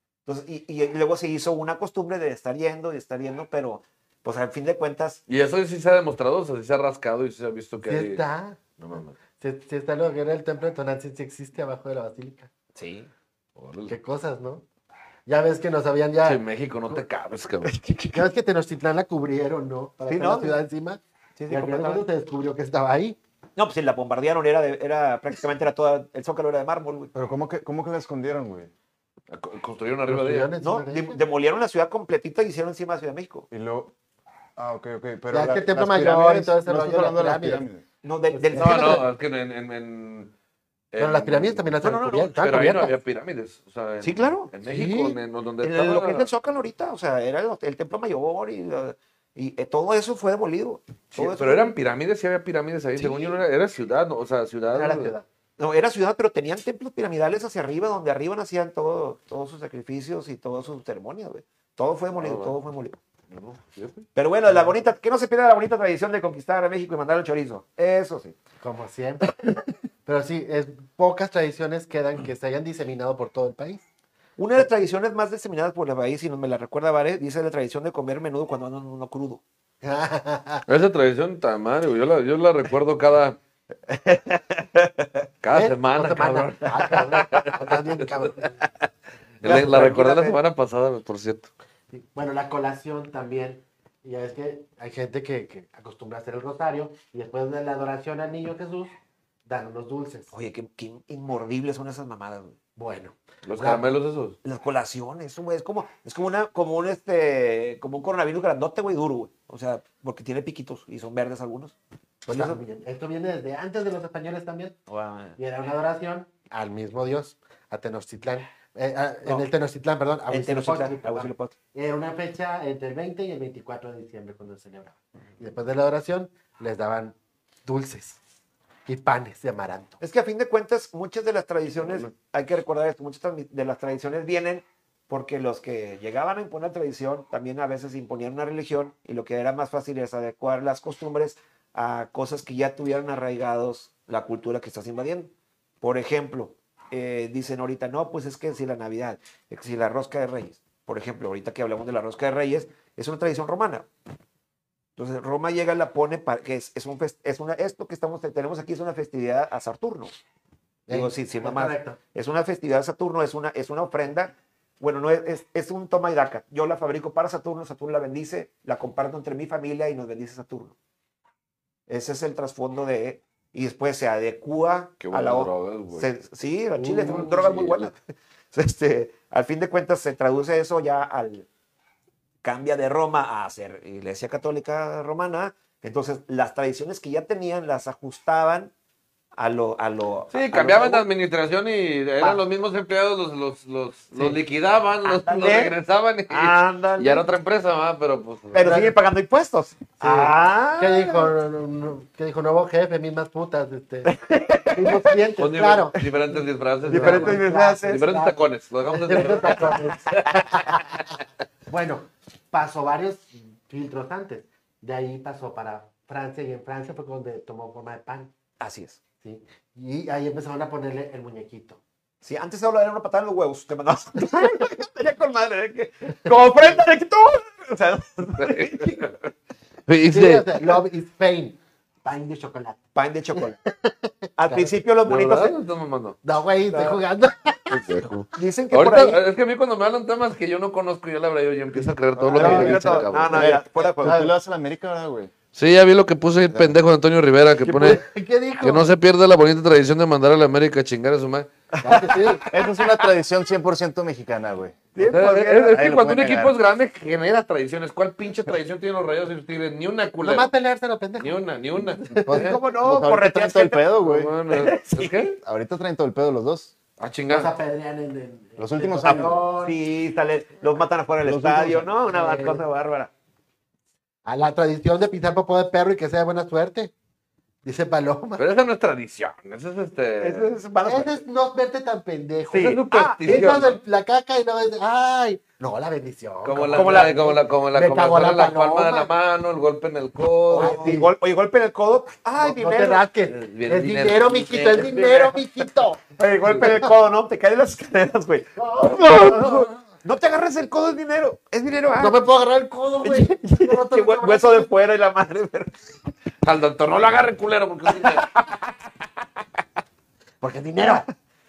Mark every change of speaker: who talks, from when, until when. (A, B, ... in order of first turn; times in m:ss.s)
0:00.2-0:05.2 A
0:05.3-0:08.2 B
0:07.8-0:08.6 C
0:08.8-0:09.1 B
0:09.4-0:12.5 C
0:12.7-0:13.1 A
0:13.6-0:13.9 B
0:13.9-0:14.6 C
0:15.3-0:17.0 C
0:16.2-0:18.0 B
0:18.1-0:23.2 C
0:20.1-0:20.6 A
0:21.4-0:22.0 A
0:23.6-0:27.1 A
0:27.1-0:28.7 D
0:29.3-0:30.5 B
0:30.1-0:31.2 C
0:30.6-0:33.5 A
0:33.5-0:33.9 D
0:34.6-0:37.8 D
0:35.3-0:37.6 C
0:38.0-0:39.0 A
0:38.3-0:39.1 C
0:38.5-0:40.3 B
0:40.9-0:41.7 B
0:41.0-0:43.0 C
0:41.8-0:42.4 A
0:42.4-0:46.3 B
0:44.0-0:44.5 A
0:44.6-0:45.2 C
0:45.6-0:51.7 A
0:51.1-0:55.1 B
0:53.0-0:53.4 A
0:54.7-0:55.2 C
0:55.6-1:03.0 A
1:02.2-1:02.6 B
1:03.3-1:04.1 B
1:04.1-1:08.4 A
1:08.6-1:13.8 C
1:14.4-1:19.4 A
1:19.8-1:20.6 C
1:20.7-1:23.4 B
1:23.9-1:25.2 A
1:25.4-1:28.5 B
1:25.5-1:28.6 C
1:29.4-1:31.5 B
1:29.4-1:30.4 A
1:31.9-1:38.9 C
1:39.4-1:40.3 C
1:40.3-1:42.6 A
1:42.8-1:43.9 C
1:43.4-1:44.4 B
1:44.4-1:51.8 A
1:52.2-1:54.8 C
1:52.3-1:52.6 A
1:54.9-1:55.4 A
1:55.4-2:08.2 C
2:00.3-2:01.5 A
2:08.8-2:10.0 C
2:10.0-2:33.9 A
2:35.0-2:40.1 A
2:40.9-2:42.0 C
2:40.9-2:50.7 A
2:51.9-2:58.0 A
2:55.0-2:56.1 B
2:56.8-2:57.9 B
2:58.5-3:01.5 A
3:02.4-3:08.7 A
3:09.4-3:11.0 A
3:10.3-3:18.8 B
3:15.0-3:15.7 A
3:16.3-3:17.3 A
3:18.5-3:21.3 A
3:18.6-3:18.9 C
3:20.0-3:24.1 C
3:24.0-3:25.2 A
3:24.7-3:26.0 C
3:25.4-3:30.4 B
3:26.9-3:31.0 C
3:26.9-3:28.1 A
3:31.7-3:38.3 C
3:38.6-3:39.0 A
3:39.2-3:41.8 C
3:42.2-3:49.0 A
3:48.4-3:49.3 B
3:49.9-3:50.8 B
3:50.1-3:52.8 C
3:52.9-3:53.6 A
3:53.3-3:54.7 C
3:54.4-3:55.6 A
3:55.0-3:56.2 B
3:56.2-3:58.0 C
3:56.7-3:57.0 A
3:57.7-4:03.5 B
3:58.3-3:59.2 A
4:02.2-4:05.3 D
4:02.3-4:04.2 A
4:02.3-4:03.0 C
4:04.0-4:04.3 C
4:05.5-4:08.0 B
4:07.7-4:07.9 A
4:07.7-4:08.9 C
4:08.6-4:11.5 B
4:11.8-4:12.4 C
4:11.8-4:12.9 A
4:12.5-4:14.8 D
4:14.9-4:15.9 A
4:15.0-4:20.5 B
4:15.7-4:16.5 D
4:20.2-4:21.4 C
4:21.2-4:22.6 B
4:22.0-4:22.4 C
4:22.2-4:24.4 D
4:22.3-4:23.9 A
4:24.0-4:25.4 B
4:24.5-4:25.3 A
4:25.4-4:26.7 D
4:27.0-4:27.5 B
4:27.3-4:29.8 C
4:28.6-4:29.4 D
4:29.0-4:33.1 A
4:31.2-4:31.9 D
4:32.1-4:32.6 C
4:34.2-4:36.9 C
4:37.6-4:38.4 C
4:38.4-4:40.5 B
4:40.2-4:41.2 A
4:40.8-4:49.1 C
4:42.5-4:43.8 B
4:42.5-4:43.7 A
4:46.4-4:51.0 B
4:46.7-4:47.4 A
4:50.5-4:53.0 A
4:50.5-4:51.1 C
4:52.4-4:56.0 C
4:53.3-4:54.8 B
4:54.5-4:55.6 A
4:56.1-5:02.2 A
4:58.6-4:59.8 C
5:02.0-5:04.7 C
5:03.0-5:05.7 A
5:06.4-5:08.3 B
5:07.9-5:08.7 A
5:10.4-5:11.0 C
5:10.8-5:11.1 A